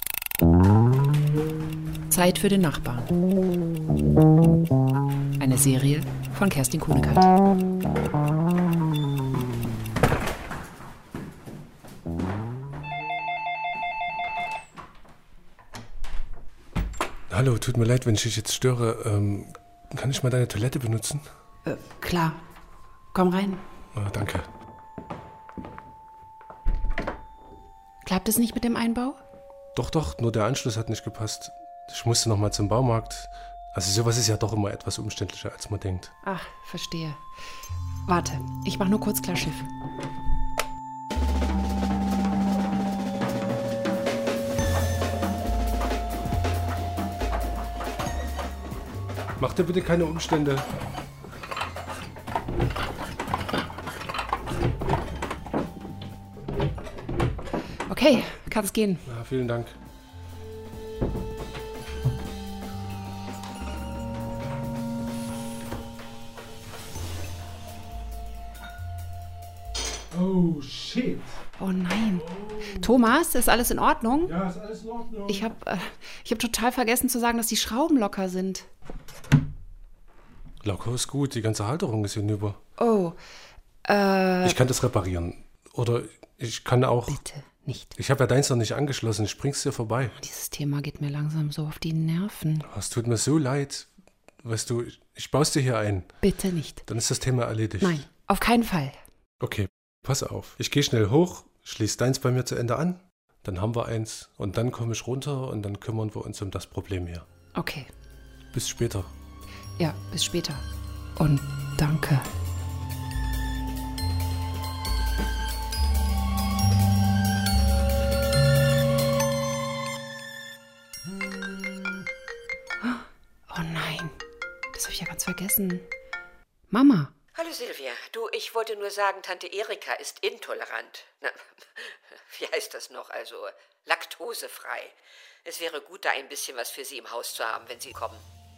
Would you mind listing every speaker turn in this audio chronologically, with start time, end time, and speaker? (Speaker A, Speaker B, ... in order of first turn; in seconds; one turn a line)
Speaker A: 2.1-3.1
Speaker A: 5.4-7.3
Speaker B: 17.3-21.2
Speaker A: 21.6-22.4
Speaker A: 23.1-23.6
Speaker B: 23.9-24.5
Speaker A: 28.0-29.2
Speaker B: 29.8-36.1
Speaker A: 36.2-37.2
Speaker A: 38.1-39.7
Speaker B: 49.4-50.7
Speaker A: 57.9-59.0
Speaker B: 59.1-59.8
Speaker B: 70.1-71.4
Speaker A: 71.6-74.3
Speaker B: 72.3-72.9
Speaker B: 74.2-75.5
Speaker A: 75.3-78.7
Speaker B: 80.6-82.6
Speaker A: 82.8-83.2
Speaker A: 83.8-84.6
Speaker B: 84.4-87.2
Speaker A: 87.1-87.9
Speaker B: 88.0-90.2
Speaker A: 90.2-92.7
Speaker B: 92.6-93.9
Speaker B: 94.4-96.1
Speaker A: 96.2-96.8
Speaker B: 96.9-98.0
Speaker A: 97.8-99.0
Speaker B: 99.4-107.3
Speaker A: 107.5-107.9
Speaker B: 108.5-109.1
Speaker A: 109.8-110.6
Speaker A: 111.2-112.3
Speaker A: 122.8-124.2
Speaker A: 124.7-125.9
Speaker A: 126.7-127.1
Speaker C: 127.3-138.2